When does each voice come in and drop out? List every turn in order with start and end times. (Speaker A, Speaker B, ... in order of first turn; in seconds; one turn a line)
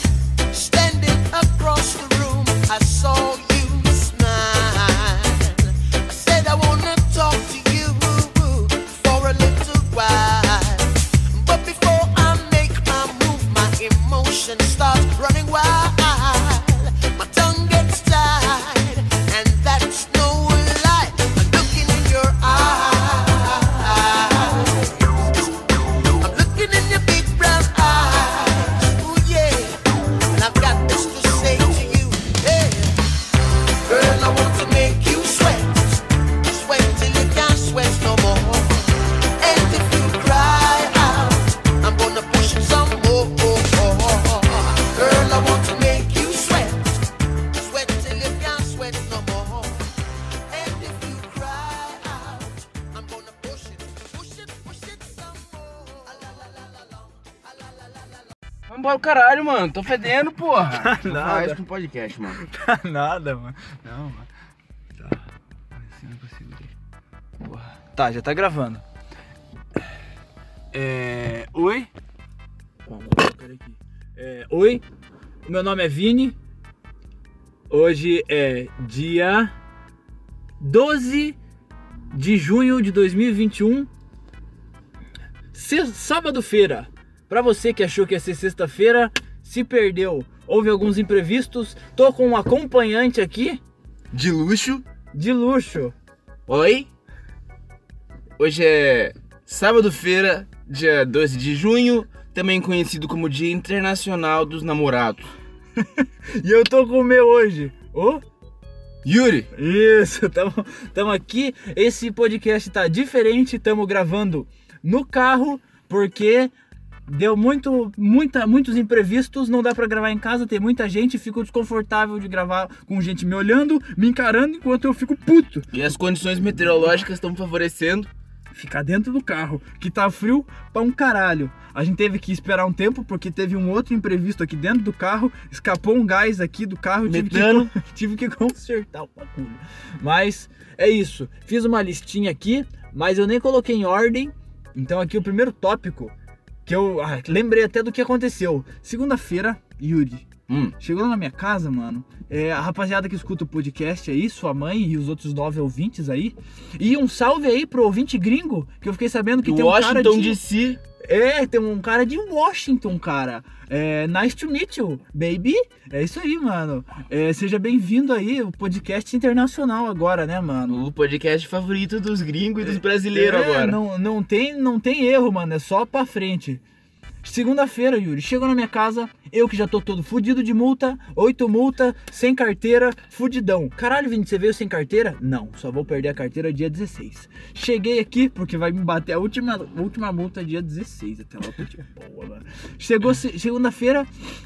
Speaker A: 0.5-33.1
Speaker A: 33.8-49.9
Speaker A: 50.5-58.3
Speaker B: 58.7-62.4
Speaker C: 60.7-61.6
Speaker C: 62.4-64.3
Speaker C: 65.8-66.7
Speaker C: 67.4-68.8
Speaker C: 70.7-71.9
Speaker C: 72.9-74.8
Speaker C: 75.5-76.4
Speaker C: 77.7-79.5
Speaker C: 80.6-81.4
Speaker C: 82.1-83.9
Speaker C: 85.5-93.6
Speaker B: 94.1-94.8
Speaker C: 95.1-95.9
Speaker B: 96.5-96.9
Speaker B: 98.4-105.3
Speaker C: 106.0-108.2
Speaker B: 109.0-109.5
Speaker C: 109.5-116.5
Speaker C: 117.1-125.7
Speaker B: 125.7-128.1
Speaker C: 128.5-146.1
Speaker B: 137.1-137.7
Speaker C: 146.7-150.3
Speaker B: 150.5-150.8
Speaker C: 150.8-160.4
Speaker B: 159.4-160.8
Speaker C: 161.0-170.8
Speaker B: 170.7-173.8
Speaker C: 172.6-176.6
Speaker C: 177.2-194.1